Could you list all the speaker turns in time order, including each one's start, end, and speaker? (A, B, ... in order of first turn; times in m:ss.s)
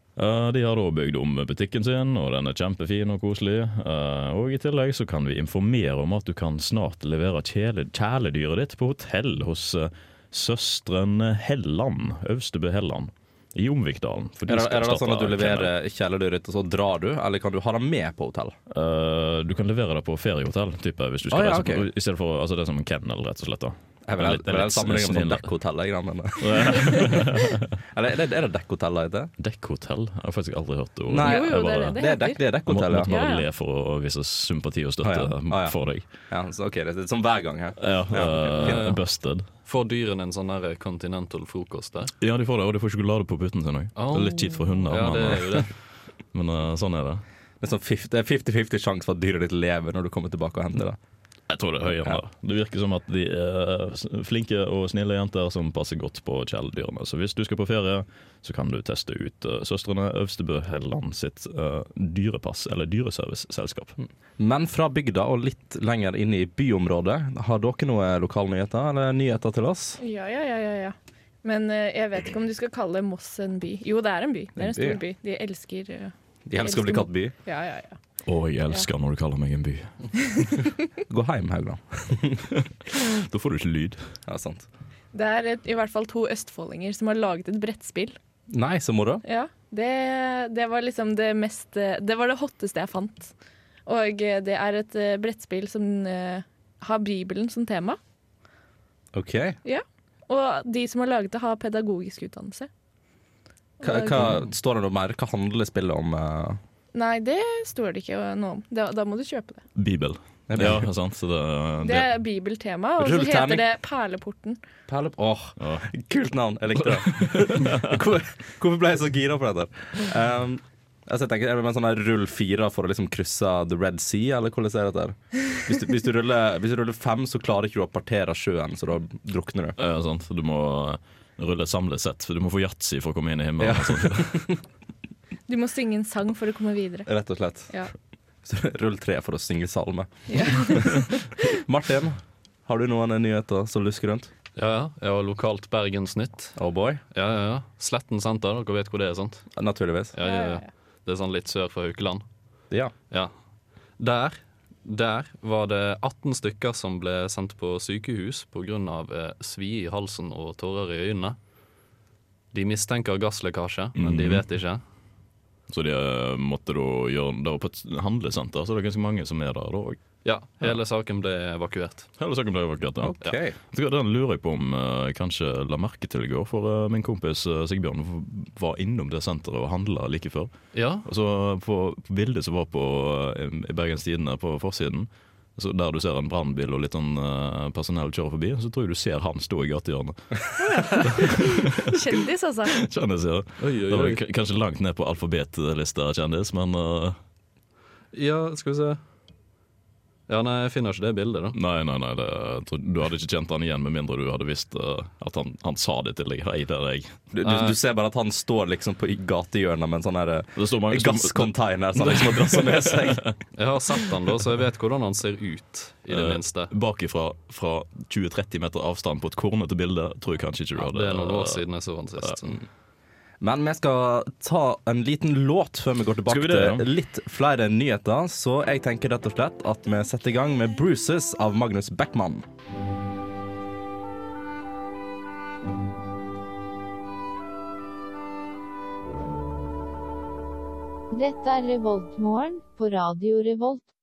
0:00.2-0:15.7 A
0:14.4-0:18.6 B
0:18.7-0:25.5 A
0:21.3-0:21.9 B
0:24.1-0:29.3 B
0:26.4-0:27.6 A
0:29.4-0:32.0 A
0:31.1-0:33.1 B
0:31.2-0:32.4 C
0:32.7-0:36.0 A
0:33.0-0:33.4 C
0:35.0-0:35.8 B
0:36.3-0:38.9 B
0:37.8-0:39.5 A
0:38.6-0:39.0 D
0:39.6-0:42.1 D
0:42.2-0:45.8 A
0:44.0-0:45.7 D
0:46.3-0:47.2 A
0:47.6-0:51.0 B
0:51.5-1:04.0 A
1:04.4-1:10.0 B
1:10.0-1:18.0 C
1:14.6-1:15.0 B
1:16.5-1:17.3 B
1:18.3-1:19.9 A
1:21.1-1:22.5 B
1:22.6-1:24.0 A
1:24.3-1:24.7 B
1:25.1-1:28.2 C
1:28.5-1:29.2 B
1:29.2-1:33.3 C
1:33.9-1:38.0 C
1:39.1-1:39.6 B
1:39.6-1:42.7 C
1:43.8-1:44.3 C
1:43.8-1:46.6 B
1:46.9-1:49.6 C
1:49.8-1:52.1 A
1:50.5-1:50.9 B
1:51.8-1:54.6 C
1:53.0-1:53.6 B
1:54.9-2:09.8 B
1:55.6-1:55.9 A
1:57.1-1:57.9 A
2:09.8-2:14.5 A
2:13.6-2:14.6 B
2:15.5-2:17.1 C
2:17.1-2:17.7 B
2:18.4-2:24.3 B
2:20.3-2:21.2 C
2:24.6-2:26.6 D
2:26.6-2:27.0 B
2:27.1-2:29.5 D
2:29.6-2:30.2 B
2:30.1-2:32.2 D
2:30.2-2:30.7 C
2:34.0-2:41.4 D
2:42.5-2:44.8 D
2:44.0-2:44.4 A
2:45.7-2:50.0 A
2:50.2-2:52.1 D
2:52.2-3:12.0 A
2:53.0-2:53.6 B
3:00.7-3:01.1 D
3:10.6-3:12.8 C
3:12.7-3:17.2 A
3:13.6-3:14.2 D
3:18.1-3:19.0 D
3:20.3-3:21.6 D
3:21.5-3:27.2 A
3:27.3-3:33.3 B
3:27.4-3:27.8 D
3:30.6-3:33.4 A
3:33.6-3:36.7 D
3:36.1-3:41.6 A
3:40.8-3:42.6 D
3:43.4-3:52.5 B
3:46.3-3:46.9 A
4:01.1-4:03.8 E